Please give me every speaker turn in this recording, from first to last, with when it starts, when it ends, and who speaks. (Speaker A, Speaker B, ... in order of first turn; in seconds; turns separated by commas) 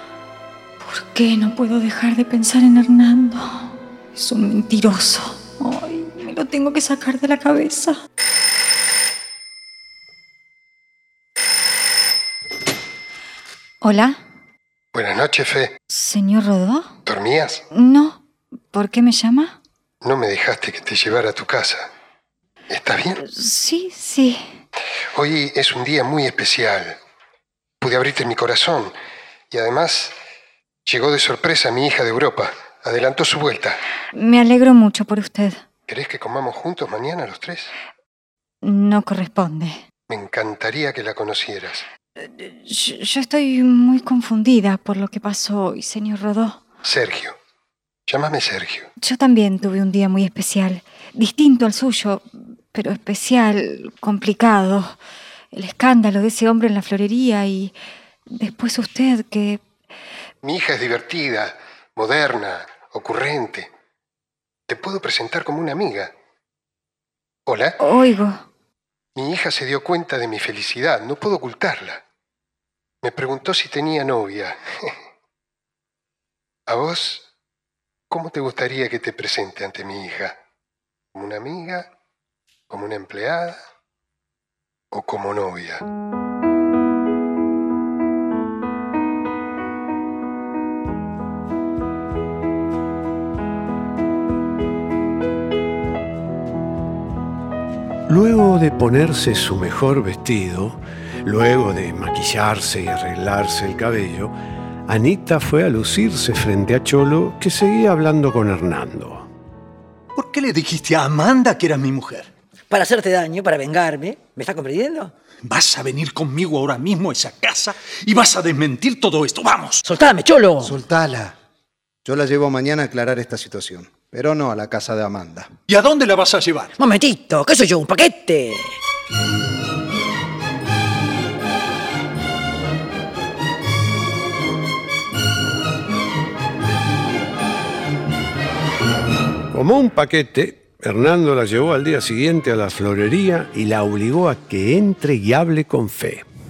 Speaker A: 0.8-8.0, Speaker A: 13.8-14.2, Speaker B: 14.9-15.7, Speaker A: 15.9-16.9, Speaker B: 17.1-17.6, Speaker A: 17.7-18.2, Speaker A: 18.7-19.6, Speaker B: 20.0-21.9, Speaker B: 22.7-23.2, Speaker A: 23.2-24.4, Speaker B: 25.1-27.0, Speaker B: 27.8-28.9, Speaker B: 29.5-30.2, Speaker B: 30.9-33.8, Speaker A: 34.1-35.6, Speaker B: 35.9-37.7, Speaker A: 38.6-39.8, Speaker B: 40.1-41.9, Speaker A: 42.2-46.6, Speaker B: 46.8-47.4, Speaker B: 48.1-48.9, Speaker A: 49.0-55.0, Speaker A: 55.5-57.7, Speaker A: 58.3-59.6, Speaker B: 60.4-63.7, Speaker B: 64.7-66.1, Speaker B: 67.5-67.8, Speaker A: 67.8-68.4, Speaker B: 69.2-72.0, Speaker B: 73.0-74.6, Speaker B: 76.7-77.2, Speaker B: 78.1-80.3, Speaker B: 81.1-81.9, Speaker B: 82.7-83.6, Speaker B: 84.9-85.8, Speaker C: 98.1-104.3, Speaker C: 104.9-109.3, Speaker D: 110.2-112.3, Speaker E: 112.7-115.1, Speaker D: 115.4-119.8, Speaker E: 119.8-120.8, Speaker F: 120.6-121.3, Speaker F: 122.0-125.5, Speaker D: 125.7-126.7, Speaker E: 126.8-128.7, Speaker C: 139.5-146.3